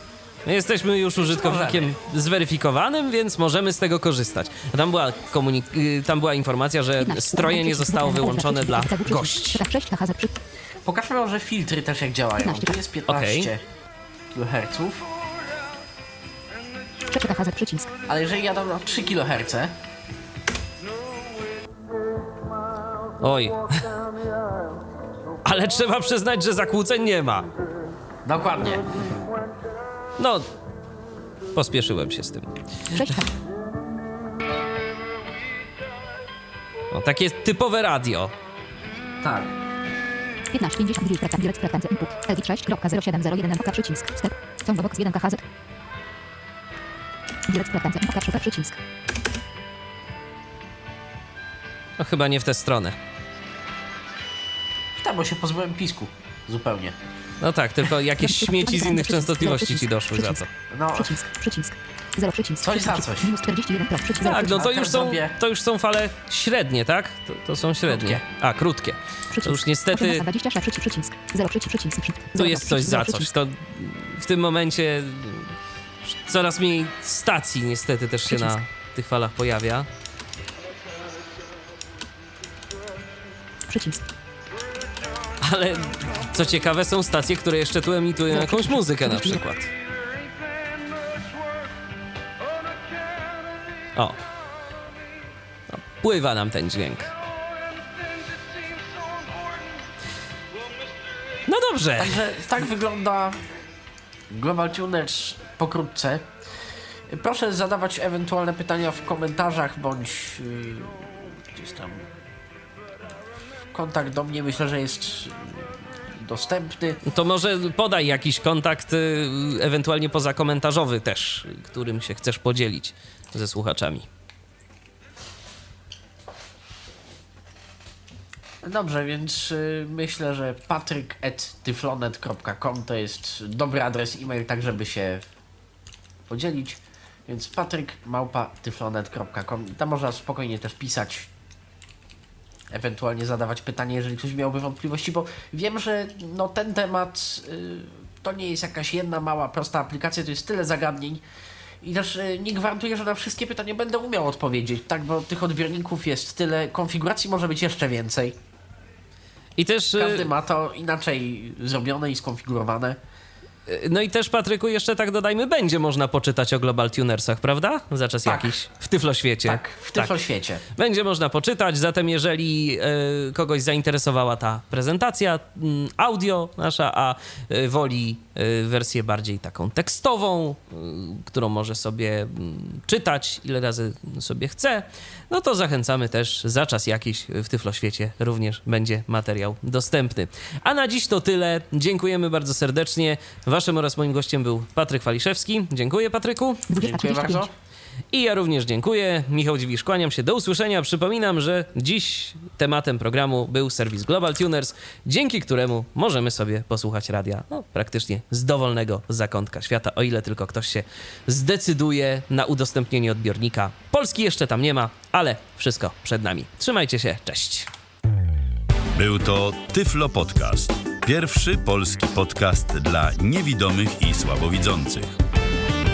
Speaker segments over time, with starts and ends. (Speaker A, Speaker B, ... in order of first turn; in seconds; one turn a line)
Speaker A: 0.5-9.6
Speaker B: 1.3-1.9
Speaker C: 7.0-10.4
Speaker B: 10.9-13.6
Speaker C: 12.4-12.8
Speaker A: 13.1-13.5
Speaker B: 14.3-15.1
Speaker C: 17.1-17.9
Speaker B: 18.1-19.7
Speaker A: 23.2-23.9
Speaker A: 25.4-27.5
Speaker B: 28.2-28.9
Speaker A: 30.2-30.4
Speaker A: 31.6-33.0
Speaker C: 32.9-33.3
Speaker A: 36.9-38.3
Speaker B: 39.2-39.5
Speaker C: 40.5-45.4
Speaker C: 47.5-48.8
Speaker A: 52.0-53.0
Speaker B: 55.0-57.0
Speaker A: 57.4-60.5
Speaker C: 58.2-60.4
Speaker B: 60.7-61.2
Speaker C: 61.0-64.7
Speaker B: 62.6-63.4
Speaker B: 64.2-65.3
Speaker A: 64.2-70.2
Speaker B: 67.9-68.2
Speaker C: 69.3-73.3
Speaker A: 72.4-79.9
Speaker C: 78.3-78.5
Speaker C: 83.7-84.0
Speaker A: 85.4-89.7
Speaker C: 88.3-89.4
Speaker A: 95.7-97.1
Speaker A: 101.5-102.2
Speaker B: 102.0-103.4
Speaker B: 104.3-106.3
Speaker B: 107.1-112.0
Speaker B: 113.7-117.0
Speaker A: 117.0-124.1
Speaker B: 128.6-135.2
Speaker B: 136.3-141.3
Speaker B: 142.7-151.2
Speaker B: 151.8-158.4
Speaker A: 159.6-160.3
Speaker B: 160.0-163.0
Speaker A: 163.7-170.2
Speaker B: 168.2-168.5
Speaker B: 169.4-170.6
Speaker A: 170.8-196.6
Speaker C: 196.7-197.5
Speaker B: 196.8-197.5
Speaker A: 198.1-217.7
Speaker D: 219.0-225.2